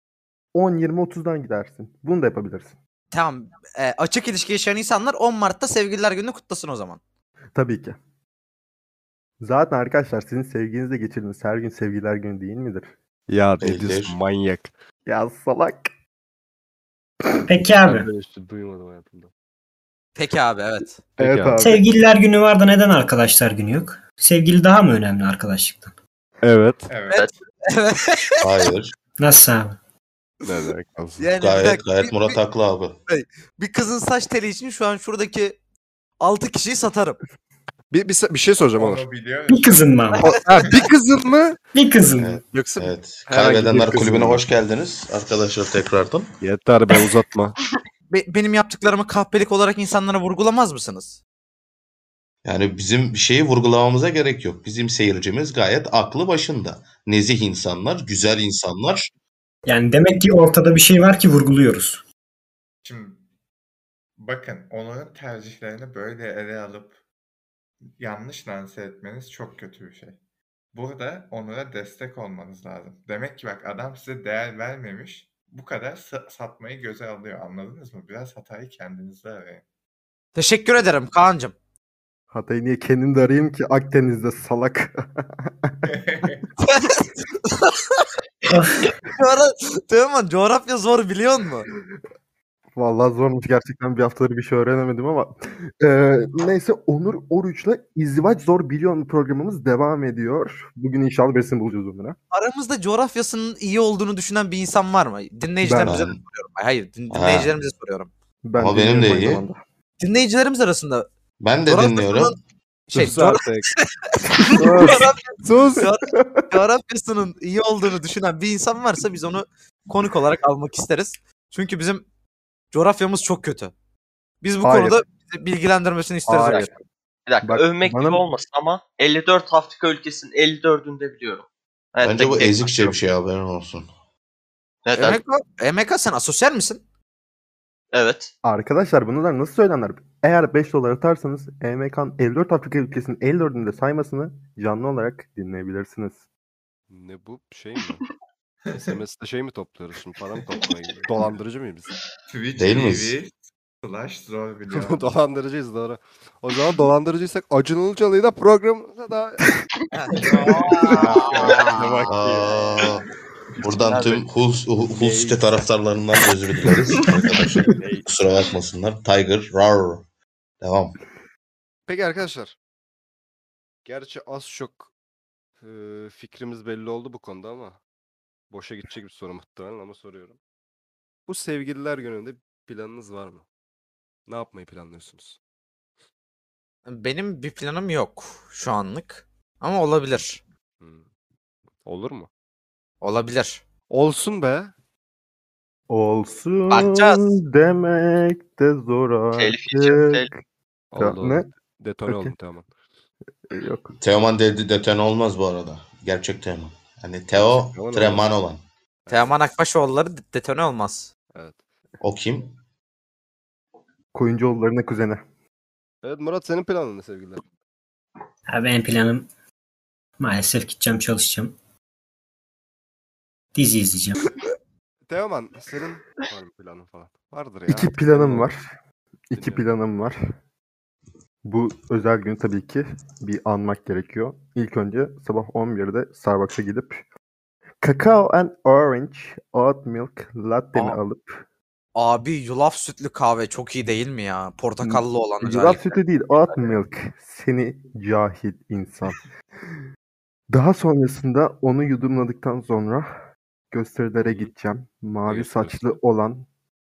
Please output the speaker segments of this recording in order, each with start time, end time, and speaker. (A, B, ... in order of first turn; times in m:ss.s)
0:00.5-0:02.8 A
0:03.1-0:07.0 B
0:07.5-0:08.0 A
0:09.4-0:12.9 A
0:13.3-0:14.7 C
0:13.6-0:14.2 D
0:15.0-0:15.9 A
0:17.5-0:18.1 E
0:17.8-0:19.3 C
0:20.2-0:21.0 B
0:21.2-0:21.7 C
0:21.2-0:21.9 A
0:21.6-0:25.9 E
0:26.4-0:26.9 C
0:26.9-0:27.2 F
0:27.1-0:28.4 B
0:28.4-0:28.9 D
0:29.2-0:29.8 E
0:30.4-0:31.3 C
0:31.2-0:32.4 B
0:31.4-0:33.0 D
0:33.1-0:35.6 B
0:36.2-0:37.2 B
0:37.9-0:39.0 C
0:38.8-0:40.9 F
0:39.5-0:40.4 E
0:40.2-0:41.6 C
0:41.7-0:42.4 E
0:42.2-0:46.3 D
0:42.4-0:44.4 C
0:46.4-0:47.6 C
0:48.1-0:51.2 B
0:52.4-0:59.1 D
0:59.6-1:02.0 E
1:02.8-1:03.2 F
1:04.2-1:07.0 F
1:08.0-1:10.2 F
1:10.7-1:19.6 F
1:20.3-1:21.5 B
1:22.3-1:25.8 A
1:25.8-1:26.5 F
1:26.6-1:28.0 B
1:29.2-1:31.7 B
1:32.8-1:42.2 A
1:42.3-1:48.1 B
1:45.6-1:46.0 A
1:45.8-1:46.2 D
1:47.1-1:47.5 D
1:48.4-1:49.6 A
1:48.6-1:49.4 D
1:50.0-1:51.0 B
1:51.4-1:52.4 D
1:51.6-1:52.4 B
1:52.9-2:02.0 B
1:52.9-1:53.7 C
1:54.5-1:55.1 A
1:54.5-1:55.8 C
1:55.8-1:56.5 A
2:02.7-2:03.7 B
2:04.4-2:06.8 B
2:04.6-2:05.0 A
2:06.3-2:06.7 A
2:07.3-2:13.0 G
2:07.4-2:08.2 A
2:12.0-2:13.9 D
2:14.8-2:15.2 G
2:15.0-2:16.8 B
2:17.9-2:18.3 G
2:18.4-2:26.2 A
2:26.9-2:28.0 C
2:28.6-2:29.0 F
2:28.8-2:31.9 C
2:30.5-2:31.2 F
2:32.3-2:35.1 F
2:32.6-2:33.2 D
2:34.7-2:39.5 C
2:39.9-2:41.9 B
2:40.3-2:41.0 F
2:41.0-2:41.3 C
2:41.3-2:42.0 G
2:41.8-2:42.6 C
2:42.0-2:42.5 F
2:42.1-2:43.0 D
2:43.6-2:50.0 D
2:43.7-2:44.2 G
2:44.9-2:45.6 C
2:47.8-2:48.0 C
2:50.6-2:51.0 D
2:51.9-2:52.6 C
2:53.8-2:54.9 C
2:55.6-2:57.8 C
2:58.5-3:00.4 C
3:01.3-3:03.4 C
3:04.3-3:05.4 C
3:06.9-3:10.4 B
3:10.8-3:11.0 C
3:11.8-3:12.3 C
3:13.0-3:13.6 B
3:13.9-3:14.7 C
3:15.9-3:20.4 A
3:16.7-3:17.4 B
3:19.4-3:20.3 G
3:20.9-3:22.7 C
3:21.0-3:21.5 A
3:22.0-3:22.3 A
3:23.5-3:23.9 A
3:24.0-3:28.6 D
3:27.3-3:28.2 C
3:29.0-3:29.3 C
3:29.1-3:31.1 B
3:31.3-3:31.6 C
3:32.0-3:32.6 D
3:34.1-3:35.2 A
3:36.0-3:37.4 C
3:38.5-3:39.3 E
3:40.2-3:41.6 E
3:43.5-3:44.3 E
3:45.1-3:48.5 C
3:47.7-3:48.6 A
3:49.3-3:50.2 A
3:49.3-3:49.6 C
3:51.4-3:57.0 A
3:57.8-4:01.4 A
4:01.9-4:06.0 B
4:04.8-4:09.8 A
4:10.5-4:13.1 A
4:13.7-4:16.5 A
4:14.2-4:14.5 C
4:15.2-4:15.9 C